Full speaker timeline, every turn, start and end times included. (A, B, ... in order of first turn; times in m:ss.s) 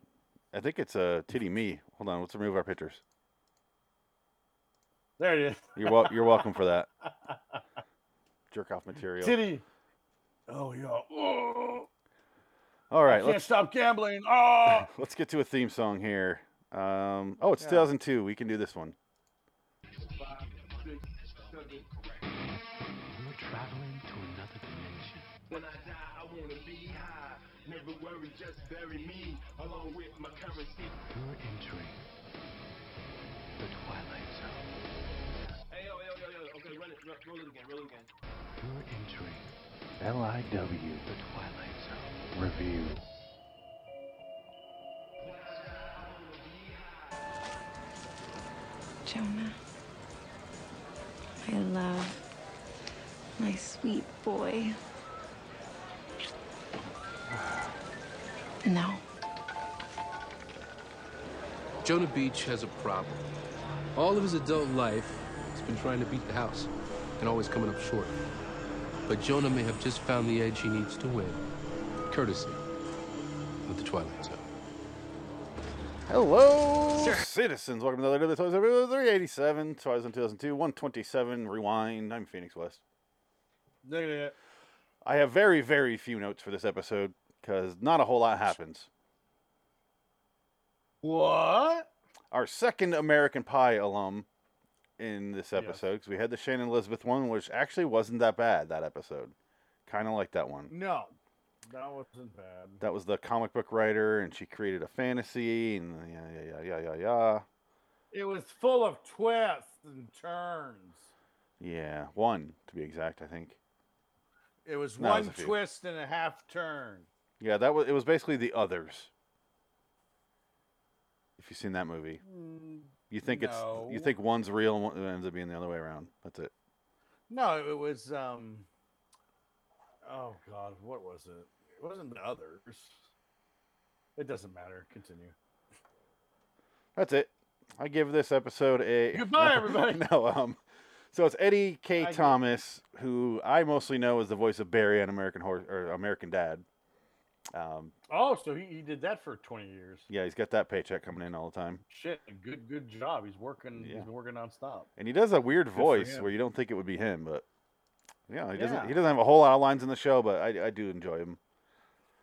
0:00.5-0:03.0 A
0:05.2-0:06.5 B
0:05.8-0:06.9 A
0:07.0-0:07.6 B
0:08.5-0:09.4 A
0:09.2-0:09.6 B
0:10.5-0:11.9 B
0:12.9-0:13.5 A
0:13.1-0:14.9 B
0:14.7-0:19.0 A
0:17.6-0:17.9 B
0:20.0-0:22.3 C
0:23.0-0:25.3 D
0:25.5-0:30.9 C
0:31.1-0:32.0 D
0:33.6-0:34.7 D
0:35.7-0:38.1 C
0:38.6-0:39.5 D
0:40.0-0:41.0 A
0:41.0-0:43.0 D
0:42.3-0:43.0 A
0:45.2-0:47.4 C
0:49.1-0:49.6 E
0:51.4-0:52.2 E
0:53.4-0:54.8 E
0:58.6-0:59.0 E
1:01.8-1:03.3 F
1:04.0-1:08.2 F
1:09.1-1:11.4 F
1:12.1-1:12.6 F
1:13.6-1:14.5 F
1:16.1-1:22.8 A
1:23.8-1:24.4 B
1:25.0-1:28.9 A
1:31.0-1:31.9 B
1:32.3-1:34.3 A
1:35.0-1:39.3 A
1:35.5-1:35.8 B
1:39.9-1:40.7 A
1:40.7-1:41.2 B
1:41.7-1:42.8 B
1:42.8-1:47.4 A
1:48.1-1:51.1 B
1:51.6-1:53.6 A
1:54.7-1:57.1 B
1:55.0-1:55.6 A
1:57.4-1:59.1 A
2:01.4-2:02.2 A
2:02.2-2:04.1 B
2:03.1-2:06.5 A
2:07.3-2:08.7 B
2:10.0-2:13.0 B
2:14.2-2:15.4 B
2:17.0-2:20.6 A
2:19.1-2:20.1 B
2:21.1-2:26.6 A
2:22.0-2:22.4 B
2:27.5-2:27.9 A
2:28.1-2:30.1 B
2:30.1-2:31.8 A
2:31.9-2:34.9 B
2:33.8-2:34.1 A
2:35.0-2:37.4 A
2:35.8-2:36.3 B
2:38.3-2:41.4 A
2:38.6-2:39.0 B